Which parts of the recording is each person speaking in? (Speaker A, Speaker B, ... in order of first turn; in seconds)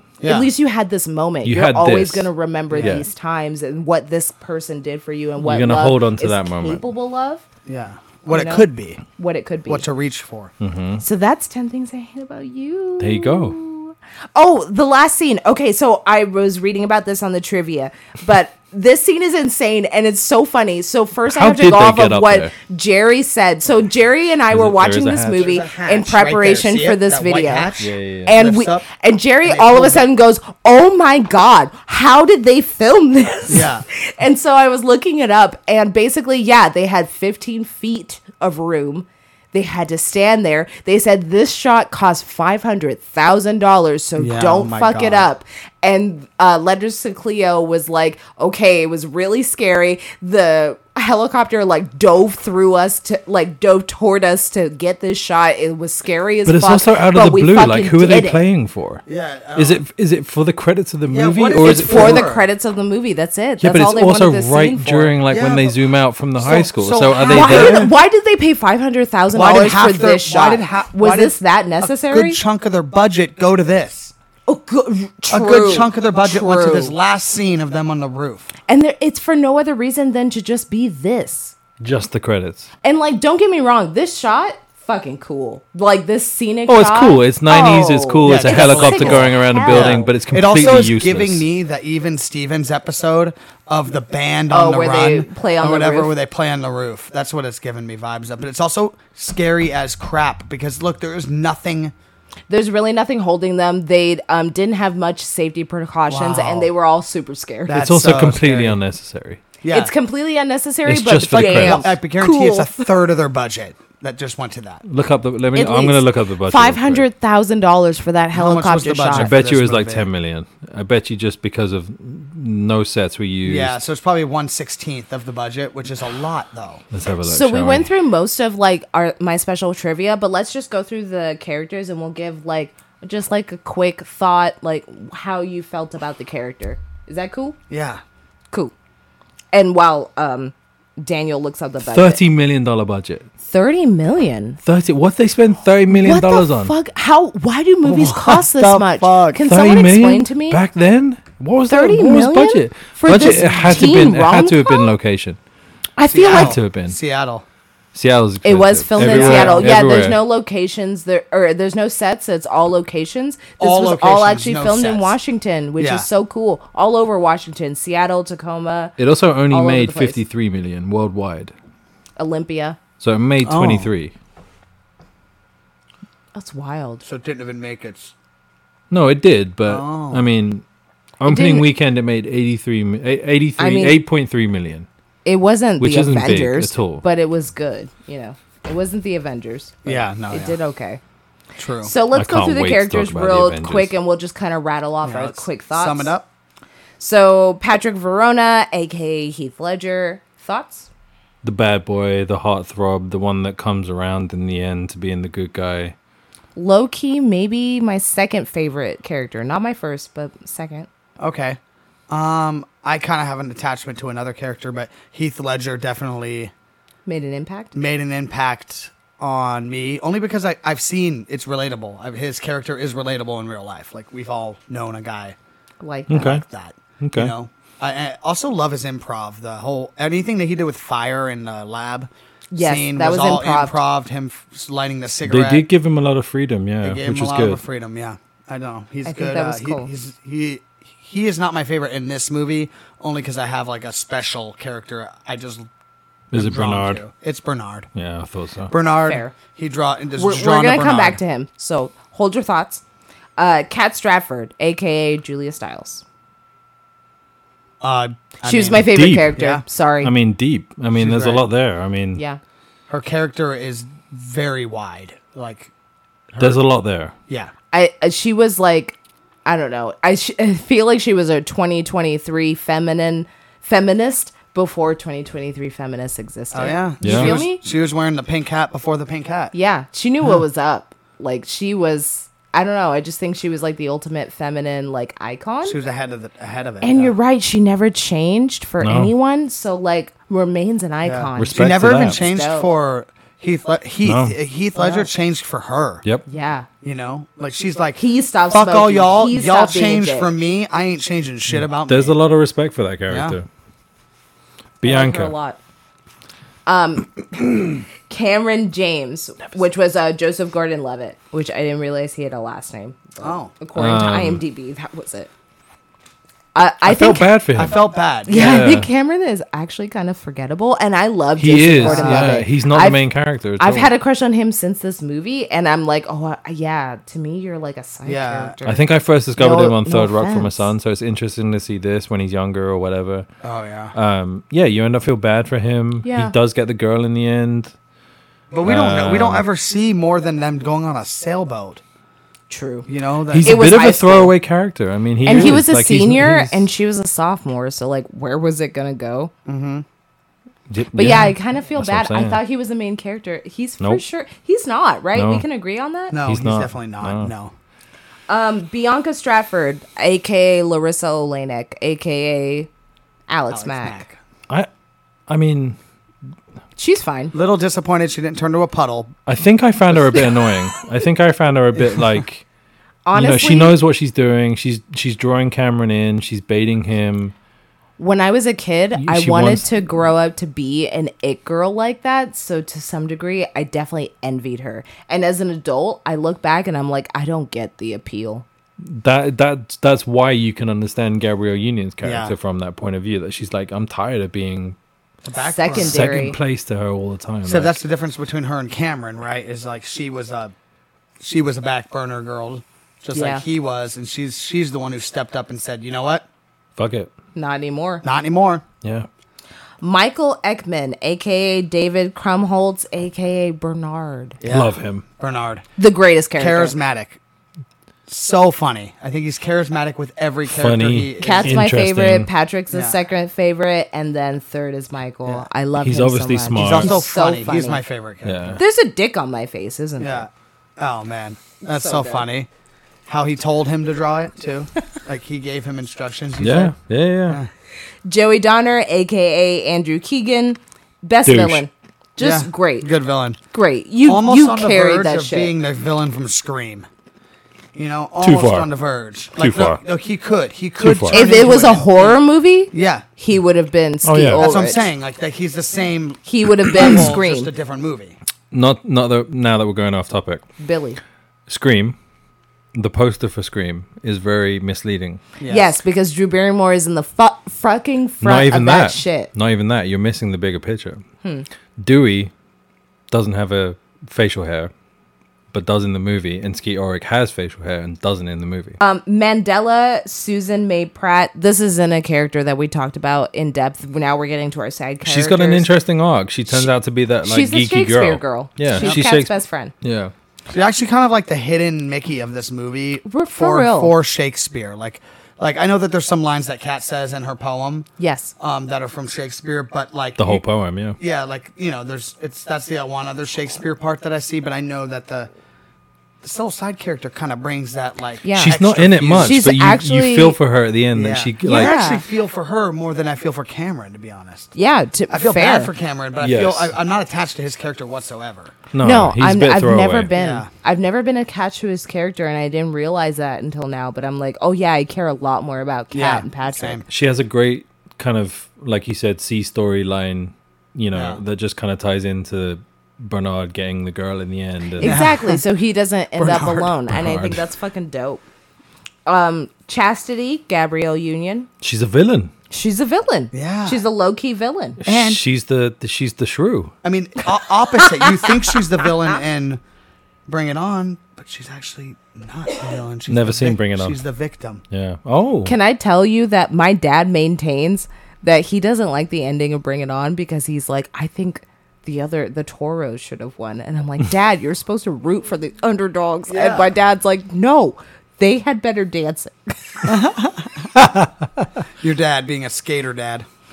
Speaker A: 0.2-0.5, 2.7-3.0, 7.7-9.0, 9.7-10.5, 25.4-28.8, 29.4-30.1, 33.5-33.8, 44.2-45.3, 59.0-59.8, 61.1-62.5, 65.3-65.8, 66.4-67.9, 69.3-74.1, 75.3-78.5, 88.2-101.9, 106.1-106.7, 107.7-108.8, 109.6-109.9, 111.3-114.8, 118.3-120.1, 123.4-126.8, 137.7-138.0, 147.8-149.4, 156.1-157.4, 159.0-159.8, 163.6-165.2, 165.8-166.1, 173.4-173.9, 177.0-178.1, 179.7-180.3, 189.8-190.6, 191.6-191.9, 195.0-196.3, 211.2-211.6, 212.1-216.5, 217.7-225.3, 226.2-235.7, 236.8-245.7, 246.3-247.9, 248.7-251.2, 257.8-259.6, 260.9-261.4, 262.9-265.7, 266.3-266.6, 276.5-279.5, 285.6-287.1, 291.0-296.0, 296.8-302.1, 303.1-303.4, 313.2-313.5, 317.5-318.5, 321.8-322.4, 328.0-328.5, 333.4-333.9, 338.5-341.8, 342.9-343.8, 345.3-345.6, 349.4-349.8, 356.1-357.5, 363.5-364.2, 367.3-369.1, 369.9-370.2, 392.0-392.3, 395.2-396.1, 397.4-400.5, 401.2-406.2, 408.0-408.6, 414.4-415.6, 416.4-417.2, 418.1-421.6, 426.6-428.6, 430.0-432.5, 433.1-436.7, 442.2-443.4, 444.1-446.9, 447.7-452.2, 452.7-453.1, 454.3-458.2, 465.4-465.8, 488.8-489.0, 490.5-497.9, 498.4-500.4, 501.0-505.3, 506.2-509.4, 510.9-514.5, 515.1-518.5, 520.1-520.5, 525.9-526.8, 530.9-531.2, 534.8-535.4, 536.2-536.7, 543.3-543.8, 544.8-545.2, 546.8-549.6, 550.3-554.6, 566.3-566.7, 569.8-573.2
Speaker B: 0.2-7.4, 8.3-8.7, 9.2-9.8, 11.0-58.4, 61.6-65.1, 67.2-72.4, 74.5-76.9, 78.7-81.5, 82.8-90.1, 94.5-96.1, 102.5-107.8, 109.7-112.9, 115.5-119.3, 127.2-137.6, 139.5-142.2, 143.4-144.6, 145.9-150.6, 151.7-154.9, 156.0-156.6, 158.4-168.9, 169.5-170.2, 172.2-172.8, 176.3-177.0, 181.2-181.7, 183.6-184.0, 185.2-191.0, 191.8-196.1, 197.0-200.9, 206.6-210.9, 217.1-217.8, 225.8-226.4, 232.5-233.8, 239.0-239.9, 249.0-249.3, 250.2-252.8, 253.4-256.0, 258.4-260.1, 267.7-277.6, 279.5-285.8, 286.8-292.7, 294.8-295.1, 296.3-296.7, 297.9-300.3, 304.8-305.6, 306.6-315.3, 316.5-317.3, 318.3-323.0, 323.6-330.7, 336.0-336.3, 342.5-342.9, 343.4-344.3, 345.2-349.3, 350.9-356.1, 358.3-362.7, 363.3-364.0, 366.8-367.3, 373.1-373.8, 378.0-388.4, 395.4-396.4, 403.1-403.4, 407.3-408.0, 409.8-414.4, 415.8-416.7, 421.2-427.8, 428.6-430.2, 431.7-432.2, 438.1-442.9, 443.5-445.5, 451.1-454.9, 456.2-457.5, 460.6-461.0, 465.5-469.3, 478.8-485.7, 487.2-489.7, 493.1-493.9, 498.0-498.3, 508.2-510.4, 511.4-512.0, 514.5-515.7, 518.8-526.8, 534.8-538.2, 539.0-541.5, 542.5-544.8, 547.8-548.6, 555.4-569.9
Speaker C: 1.4-3.1, 5.4-6.8, 10.6-11.0, 13.0-13.6, 21.3-22.5, 24.5-25.5, 27.8-28.4, 56.5-59.0, 59.5-62.3, 63.6-67.9, 81.8-82.7, 86.7-91.5, 107.7-109.4, 110.8-111.9, 114.8-117.0, 119.1-123.8, 126.9-127.9, 141.9-143.3, 144.6-146.7, 149.4-155.4, 156.2-157.0, 157.9-160.2, 169.0-171.5, 173.0-174.1, 178.9-180.6, 181.2-184.9, 185.8-187.0, 192.1-193.9, 201.4-205.9, 226.1-226.4, 227.0-227.3, 235.2-237.6, 246.3-247.0, 247.9-248.7, 258.7-259.4, 260.0-262.2, 266.4-267.1, 277.0-277.4, 288.8-289.1, 291.4-292.2, 294.0-294.4, 301.5-303.4, 304.8-305.3, 313.8-314.4, 316.8-317.8, 318.3-318.9, 321.4-323.9, 328.6-333.3, 333.9-337.7, 338.6-339.4, 343.3-346.7, 350.7-352.4, 355.1-355.4, 356.2-357.3, 365.3-365.8, 369.3-372.4, 373.1-377.3, 378.9-380.1, 388.8-394.8, 395.7-397.7, 406.8-407.1, 408.8-409.1, 414.5-415.0, 420.4-422.3, 425.8-427.0, 428.2-428.6, 436.4-437.4, 441.2-441.6, 448.2-448.7, 449.4-449.8, 450.8-451.2, 454.0-454.4, 458.5-460.4, 461.5-461.9, 462.7-465.2, 468.2-471.0, 471.8-472.3, 473.1-474.7, 475.5-478.8, 485.0-490.1, 500.2-501.0, 508.4-511.7, 516.2-516.7, 518.7-520.1, 526.9-535.1, 536.9-537.4, 541.6-542.3, 544.8-546.7, 553.1-554.0, 554.7-555.5